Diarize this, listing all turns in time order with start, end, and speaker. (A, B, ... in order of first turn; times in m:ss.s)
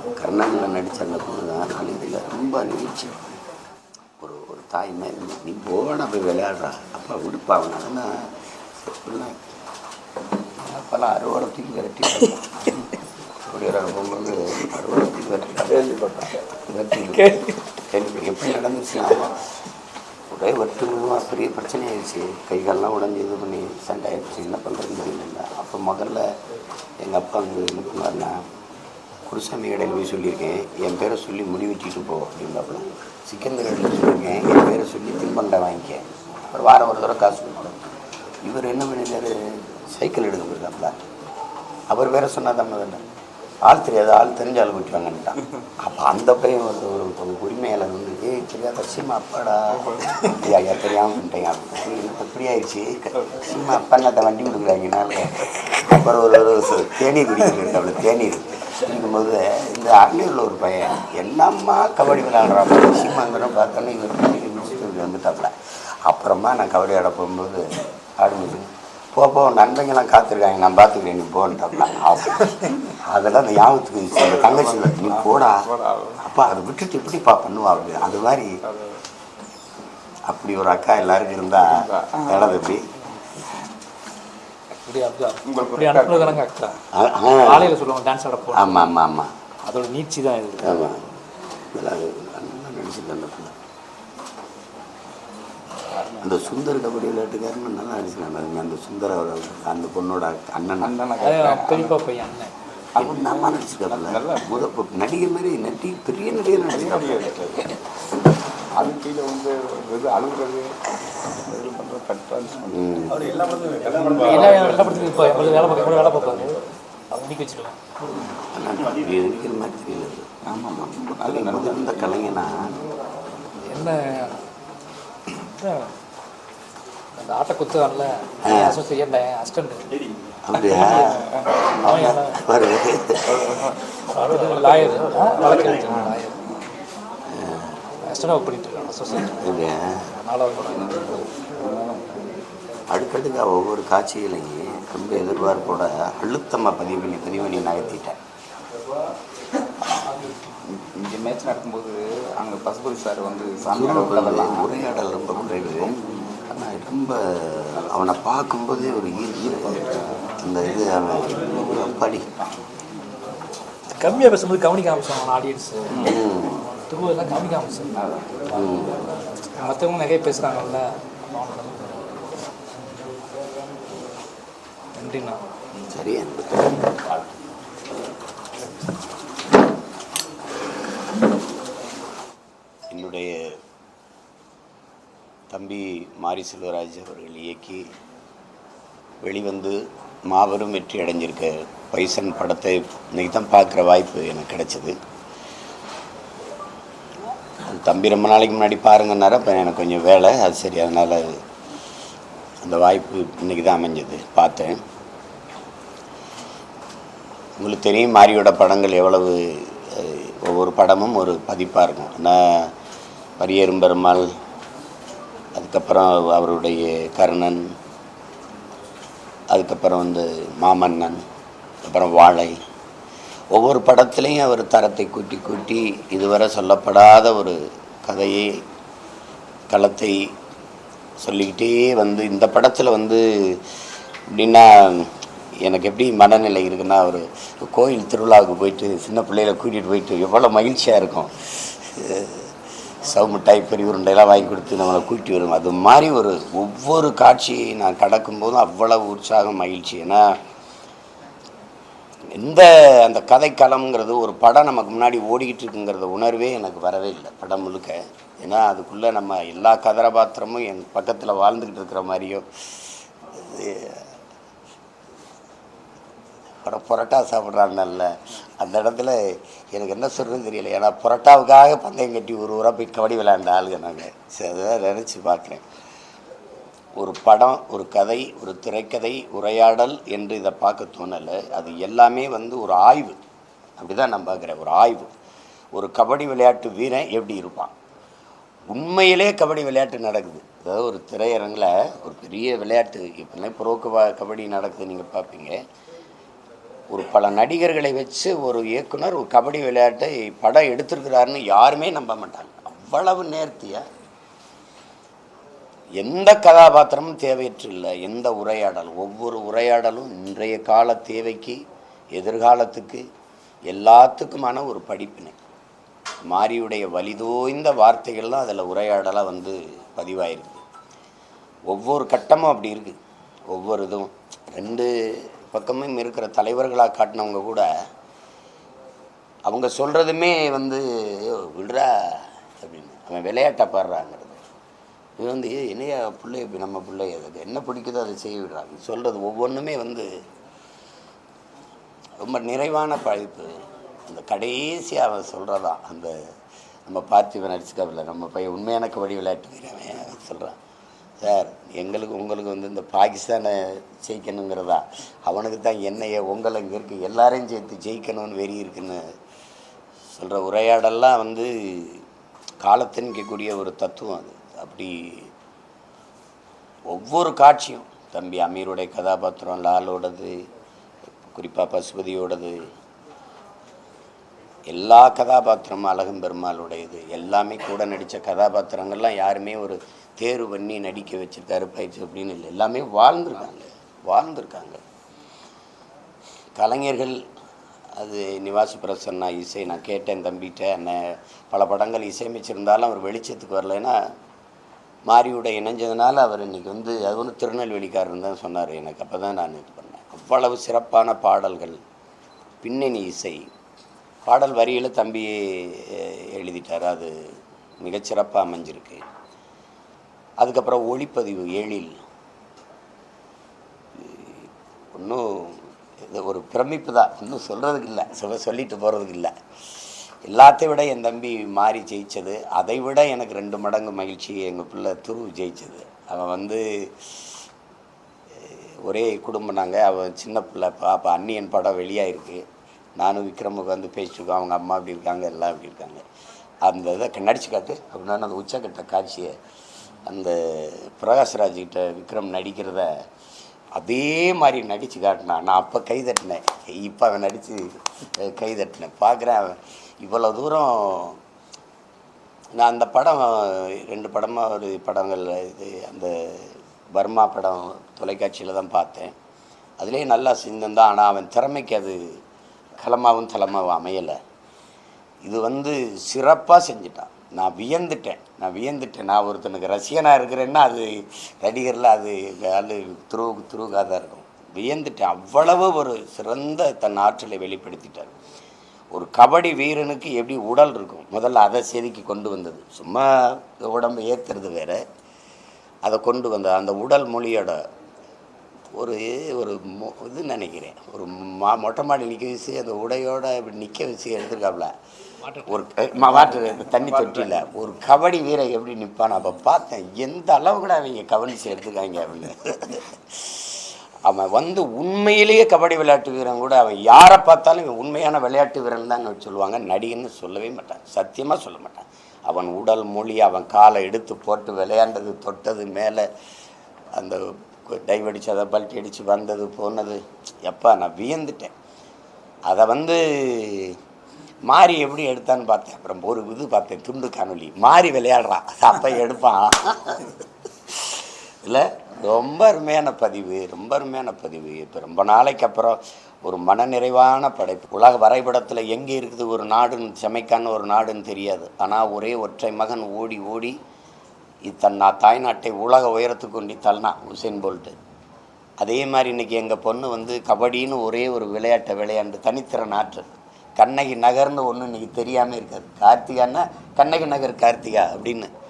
0:00.2-0:03.3 A
0:04.2-0:08.3 A
0:08.8-0:09.4 A
0:10.5-0:12.6 A
0:13.4-0:19.4 A
0:15.7-0:16.4 B
0:17.2-0:17.5 C
0:20.3-0:26.2 A
0:27.0-0:28.4 A
0:29.3-0:37.8 A
0:38.4-0:41.0 A
0:41.9-0:43.0 A
0:43.7-1:05.5 A
0:49.8-0:50.2 B
0:53.2-0:53.5 B
1:06.0-1:15.7 A
1:14.1-1:16.2 B
1:16.2-1:18.6 A
1:18.6-1:19.0 B
1:20.3-1:22.9 A
1:21.5-1:22.6 B
1:24.8-1:26.8 C
1:25.4-1:26.4 B
1:26.9-1:27.8 A
1:27.4-1:28.9 C
1:28.5-1:29.3 A
1:29.6-1:30.9 C
1:30.6-1:31.0 A
1:31.7-1:33.5 A
1:35.9-1:36.6 B
1:36.2-1:40.9 A
1:40.8-1:42.0 B
1:41.2-1:42.5 C
1:43.0-1:44.6 B
1:43.0-1:47.8 A
1:46.5-1:47.7 B
1:48.8-1:50.7 B
1:51.3-1:56.5 B
1:52.7-1:53.3 A
1:54.2-1:57.8 C
1:58.5-2:00.3 A
2:00.4-2:02.4 B
2:01.1-2:02.8 A
2:03.6-2:04.4 C
2:05.4-2:05.9 C
2:07.2-2:09.9 C
2:08.4-2:08.8 A
2:10.4-2:11.3 A
2:10.7-2:11.2 C
2:11.8-2:13.7 A
2:11.8-2:12.4 C
2:13.4-2:13.7 B
2:14.1-2:16.4 C
2:17.3-2:17.8 A
2:18.0-2:19.4 C
2:19.3-2:20.1 A
2:20.2-2:20.8 C
2:20.6-2:22.3 B
2:22.9-2:28.2 A
2:30.6-2:36.1 B
2:33.7-2:36.0 A
2:36.5-2:42.3 A
2:39.4-2:40.3 B
2:41.1-2:42.4 B
2:44.0-2:46.1 C
2:45.9-2:46.2 B
2:46.0-2:46.7 A
2:46.7-2:47.9 C
2:47.9-2:48.5 B
2:48.5-2:49.0 A
2:49.6-2:52.1 C
2:55.0-2:55.4 C
2:55.9-2:57.0 A
3:02.9-3:03.6 A
3:05.5-3:07.8 A
3:09.2-3:09.8 A
3:10.3-3:15.0 A
3:17.6-3:21.4 A
3:22.6-3:24.8 A
3:27.6-3:32.7 A
3:33.4-3:34.3 A
3:35.5-3:37.6 A
3:39.5-3:41.2 A
3:41.8-3:42.6 A
3:43.5-3:48.6 A
3:49.7-3:50.2 A
3:51.2-3:53.6 A
3:54.3-3:55.1 A
3:55.6-4:02.5 A
4:03.0-4:10.2 A
4:12.3-4:24.1 A
4:26.6-4:35.6 A
4:37.0-4:43.2 A
4:43.8-4:45.1 A
4:45.7-4:47.7 A
4:48.7-4:55.6 A
4:56.9-5:03.8 A
5:06.0-5:11.6 A
5:12.2-5:13.0 A
5:13.7-5:15.4 A
5:16.3-5:20.6 A
5:21.7-5:23.0 A
5:23.5-5:27.6 A
5:29.5-5:34.4 A
5:35.2-5:40.0 A
5:42.2-5:46.1 A
5:46.9-5:50.6 A
5:51.2-5:59.0 A
6:00.1-6:02.0 A
6:02.6-6:05.3 A
6:06.9-6:10.3 A
6:11.3-6:12.6 A
6:14.7-6:24.8 A
6:26.6-6:27.2 A
6:28.0-6:34.0 A
6:35.1-6:41.8 A
6:42.6-6:43.4 A
6:44.3-6:47.1 A
6:47.8-6:49.0 A
6:50.4-6:51.9 A
6:53.9-6:59.3 A
7:00.2-7:07.1 A
7:08.4-7:12.4 A
7:13.0-7:16.0 A
7:16.6-7:19.3 A
7:20.0-7:22.9 A
7:23.8-7:31.2 A
7:32.6-7:39.1 A
7:39.8-7:42.0 A
7:42.8-7:44.2 A
7:45.2-7:58.1 A
7:58.9-8:04.8 A
8:05.8-8:07.6 A
8:08.7-8:14.7 A
8:15.2-8:15.6 C
8:15.4-8:36.0 A
8:16.0-8:17.5 B
8:37.0-8:41.5 A
8:42.5-8:43.8 A
8:44.5-9:03.5 A
9:04.5-9:07.7 A
9:08.6-9:18.3 A